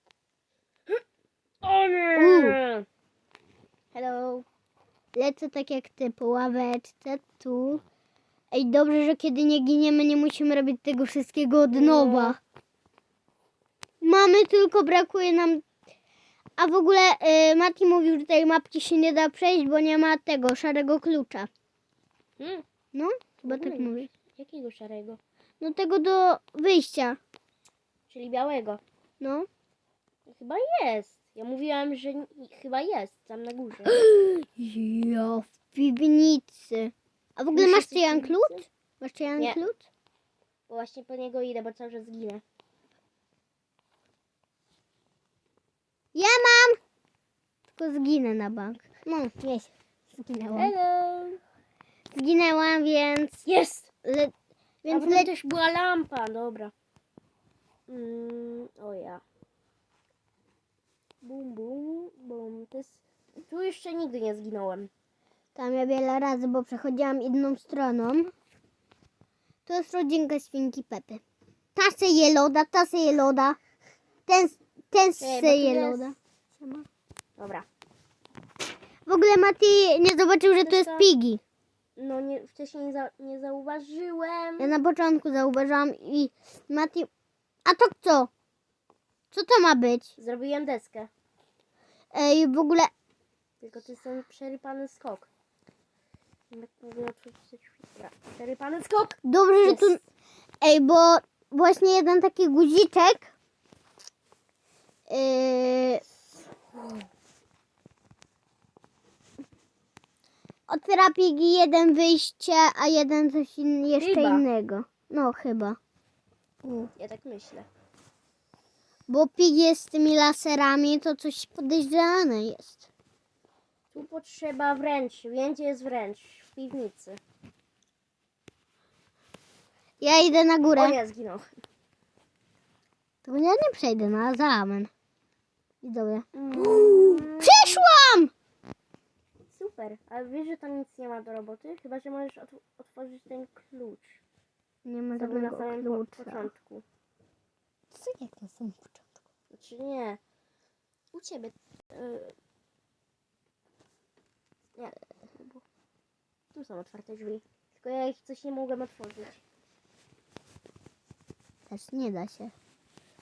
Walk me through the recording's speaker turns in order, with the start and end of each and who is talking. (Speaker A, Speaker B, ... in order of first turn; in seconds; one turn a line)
Speaker A: 1.6-2.9
Speaker B: 2.1-2.6
Speaker A: 3.9-4.5
Speaker B: 5.1-7.8
Speaker B: 8.5-12.4
Speaker A: 11.7-12.4
Speaker B: 14.0-15.6
Speaker B: 16.6-21.5
Speaker A: 22.4-22.6
Speaker B: 22.9-24.1
Speaker A: 23.4-25.2
Speaker B: 25.6-27.2
Speaker A: 28.1-28.8
Speaker B: 29.2-29.5
Speaker A: 30.3-34.0
Speaker B: 33.9-39.9
Speaker A: 37.5-38.6
Speaker A: 39.4-39.6
Speaker A: 40.7-42.4
Speaker B: 46.1-46.8
Speaker B: 47.7-50.7
Speaker A: 50.5-51.4
Speaker B: 52.1-53.4
Speaker A: 53.4-53.9
Speaker B: 54.0-54.3
Speaker B: 54.8-55.3
Speaker A: 54.9-56.7
Speaker A: 57.9-59.2
Speaker A: 61.2-64.9
Speaker B: 65.5-68.3
Speaker B: 69.7-71.2
Speaker B: 71.7-73.6
Speaker B: 74.3-76.8
Speaker A: 75.2-76.1
Speaker A: 77.4-77.7
Speaker B: 79.0-81.4
Speaker A: 80.6-81.1
Speaker A: 82.0-84.7
Speaker B: 84.6-87.1
Speaker B: 87.6-88.3
Speaker B: 89.3-90.1
Speaker A: 90.2-91.1
Speaker B: 92.1-92.9
Speaker A: 93.6-95.3
Speaker A: 96.5-100.0
Speaker B: 99.2-100.0
Speaker B: 100.6-103.3
Speaker B: 105.1-106.0
Speaker A: 106.7-107.0
Speaker B: 110.7-115.8
Speaker A: 114.0-114.5
Speaker B: 116.6-116.9
Speaker A: 117.0-117.7
Speaker B: 119.1-122.9
Speaker A: 123.9-127.2
Speaker B: 130.0-131.0
Speaker A: 130.7-131.4
Speaker B: 133.2-134.9
Speaker B: 135.8-138.3
Speaker A: 136.3-137.8
Speaker A: 139.5-144.2
Speaker B: 144.8-146.5
Speaker A: 145.1-146.8
Speaker B: 147.9-149.2
Speaker A: 149.5-150.2
Speaker A: 151.1-152.3
Speaker A: 154.8-155.6
Speaker A: 156.5-159.4
Speaker B: 161.7-162.5